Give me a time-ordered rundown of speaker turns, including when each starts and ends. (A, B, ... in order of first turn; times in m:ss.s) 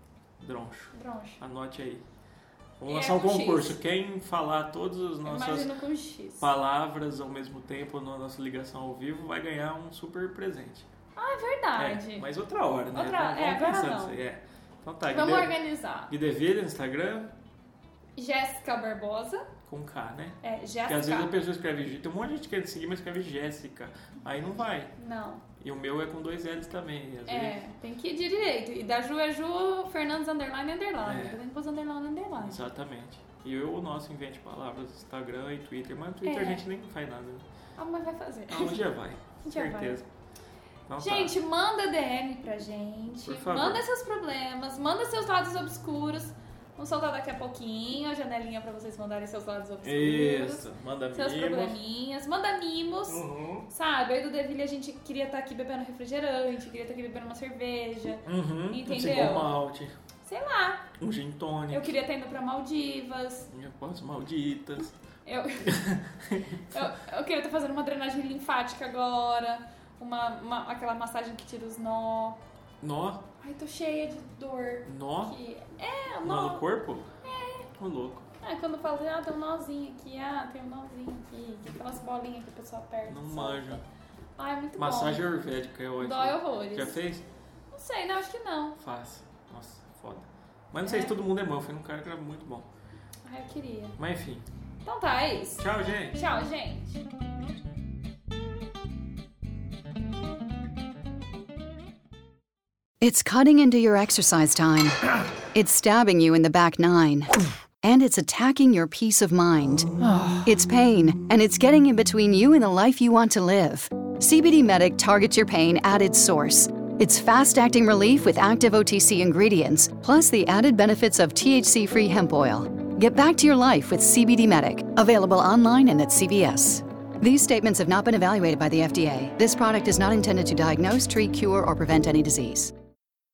0:00.4-0:02.0 A
0:00.9-0:01.4 B
0:02.8-0:05.7 A
0:02.9-0:03.8 B
0:05.2-0:06.5 B
0:06.4-0:10.9 A
0:11.2-0:12.3 B
0:11.8-0:15.6 A
0:12.9-0:14.2 B
0:15.1-0:16.1 B
0:16.1-0:17.3 A
0:18.2-0:19.5 B
0:19.7-0:24.9 A
0:20.4-0:21.3 B
0:25.0-0:25.4 B
0:25.6-0:27.6 A
0:27.3-0:32.6 B
0:31.0-0:31.4 A
0:32.4-0:37.4 A
0:36.2-0:36.6 B
0:37.8-0:38.9 B
0:38.5-0:40.0 A
0:39.4-0:40.0 B
0:40.9-0:41.3 A
0:41.0-0:59.5 B
0:43.2-0:43.8 A
0:49.8-0:51.8 A
0:53.1-0:53.7 A
0:58.2-0:59.9 A
1:00.2-1:00.9 B
1:01.0-1:02.0 A
1:01.7-1:03.5 B
1:03.5-1:05.0 A
1:05.2-1:05.8 B
1:05.6-1:06.8 A
1:06.7-1:12.4 B
1:12.8-1:13.2 A
1:13.4-1:16.6 B
1:14.8-1:15.3 A
1:16.2-1:17.1 A
1:17.2-1:17.7 B
1:17.7-1:18.3 A
1:18.4-1:23.8 B
1:23.1-1:23.8 A
1:24.4-1:25.2 B
1:24.8-1:27.2 A
1:26.0-1:27.0 B
1:27.7-1:28.8 B
1:28.8-1:32.7 A
1:30.8-1:31.1 B
1:33.2-1:34.0 B
1:34.0-1:34.5 A
1:34.8-1:37.0 B
1:35.6-1:36.2 A
1:43.0-2:12.7 C